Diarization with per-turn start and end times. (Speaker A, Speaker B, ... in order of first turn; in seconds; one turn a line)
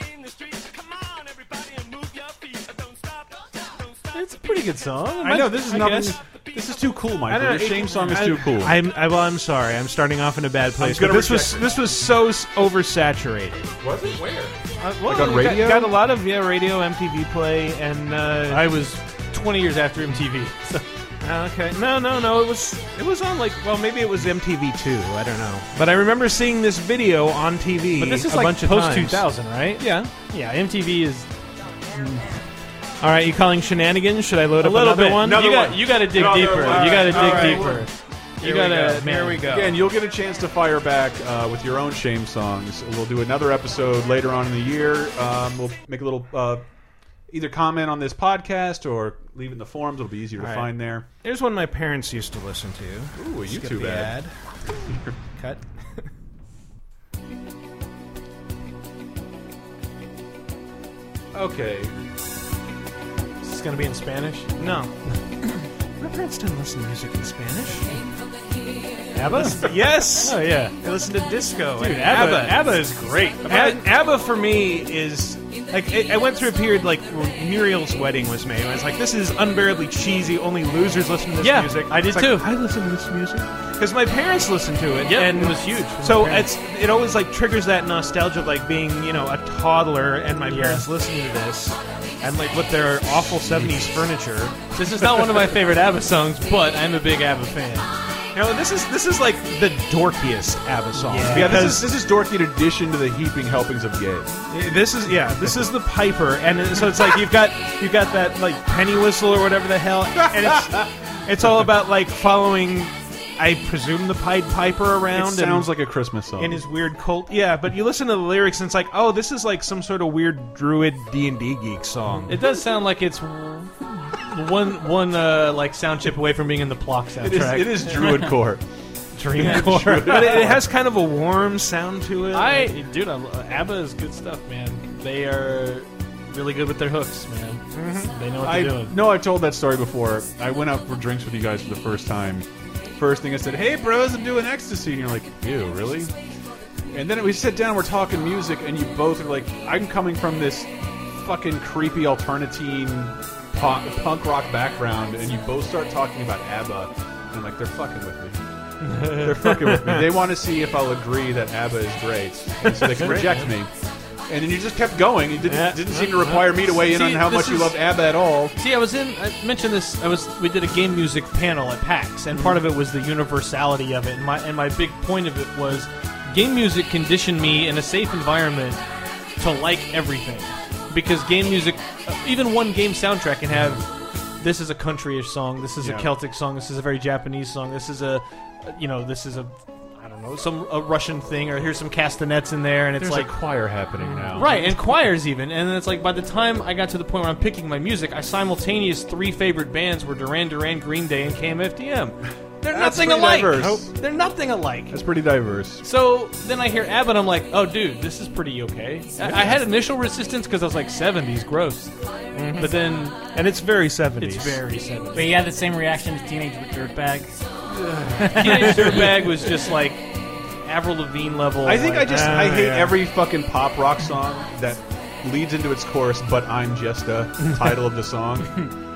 Speaker A: 4.1-6.2
Speaker B: 5.2-8.8
Speaker C: 7.3-13.8
Speaker B: 10.8-11.7
Speaker B: 13.8-15.9
Speaker C: 14.8-18.7
Speaker A: 18.5-20.8
Speaker C: 21.2-29.3
Speaker A: 28.0-31.3
Speaker C: 29.8-30.1
Speaker C: 33.0-37.9
Speaker A: 34.6-39.5
Speaker B: 35.3-37.9
Speaker C: 38.4-39.8
Speaker B: 39.4-46.6
Speaker B: 47.3-51.0
Speaker C: 50.4-54.3
Speaker B: 53.1-54.2
Speaker B: 54.9-55.1
Speaker C: 55.4-56.1
Speaker B: 61.3-61.9
Speaker A: 63.4-64.5
Speaker C: 64.6-64.9
Speaker C: 66.0-67.9
Speaker A: 69.1-70.7
Speaker C: 69.2-72.8
Speaker A: 71.8-73.8
Speaker C: 73.4-94.6
Speaker A: 81.4-82.5
Speaker A: 85.0-86.5
Speaker A: 90.4-90.8
Speaker A: 94.7-98.0
Speaker C: 98.3-101.9
Speaker A: 101.0-101.7
Speaker B: 101.2-104.4
Speaker C: 104.5-115.7
Speaker B: 105.2-105.6
Speaker B: 110.2-110.9
Speaker B: 115.1-116.6
Speaker C: 116.3-122.4
Speaker A: 122.3-128.1
Speaker B: 127.2-128.6
Speaker A: 129.1-130.5
Speaker B: 129.3-130.7
Speaker C: 129.4-132.7
Speaker A: 132.3-138.9
Speaker C: 137.7-138.1
Speaker B: 138.4-146.1
Speaker B: 146.9-158.4
Speaker C: 158.9-160.0
Speaker B: 159.0-163.7
Speaker A: 162.9-163.5
Speaker B: 164.3-168.5
Speaker C: 165.4-166.5
Speaker A: 166.6-167.8
Speaker A: 168.6-178.8
Speaker A: 179.4-183.9
Speaker A: 184.4-193.3
Speaker B: 185.8-186.1
Speaker B: 193.0-194.6
Speaker C: 194.0-194.6
Speaker A: 194.3-205.0
Speaker B: 202.6-203.9
Speaker B: 204.9-205.8
Speaker A: 205.8-211.9
Speaker B: 209.2-209.6
Speaker C: 212.3-214.6
Speaker A: 212.5-213.2
Speaker A: 214.2-215.4
Speaker D: 215.1-217.3
Speaker B: 217.8-218.3
Speaker A: 218.2-222.4
Speaker D: 218.2-219.0
Speaker B: 221.6-228.7
Speaker C: 222.1-223.0